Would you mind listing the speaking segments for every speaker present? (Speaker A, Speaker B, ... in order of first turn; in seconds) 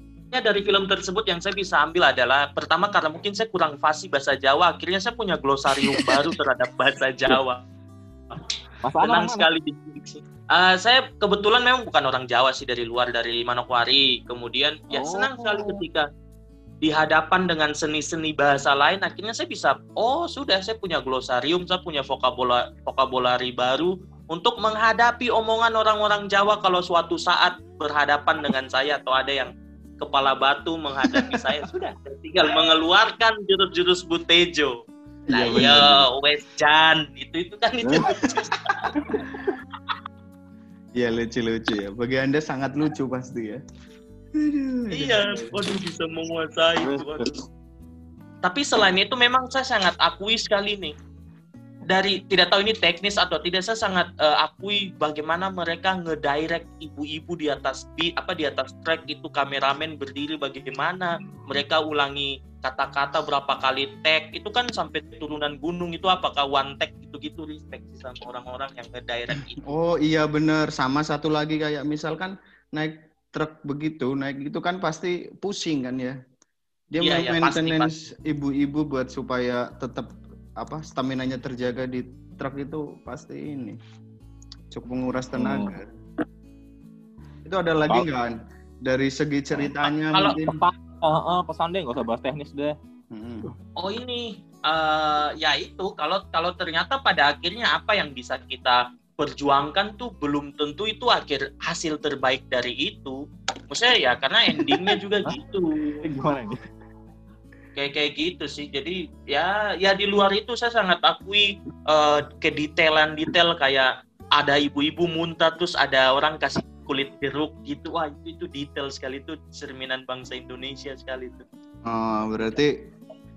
Speaker A: 0.3-7.6, 9.0-16.1, 16.8-34.8, 35.3-38.9, 44.9-47.4, 48.4-51.0, 51.9-69.6, 77.0-77.9, 90.1-90.4, 93.8-103.2, 103.7-106.0, 107.8-121.4
Speaker B: 5.8-6.2, 8.8-9.5, 14.9-15.8, 37.8-38.1, 38.9-39.3, 46.8-47.3, 85.4-85.7, 90.4-92.8, 104.6-105.3, 106.0-106.6
Speaker C: 31.1-31.4, 35.3-36.0, 38.0-38.4, 41.0-43.6, 44.3-45.5, 69.6-76.2, 76.9-83.8, 84.7-85.9, 87.4-90.6, 93.1-93.5, 121.8-122.9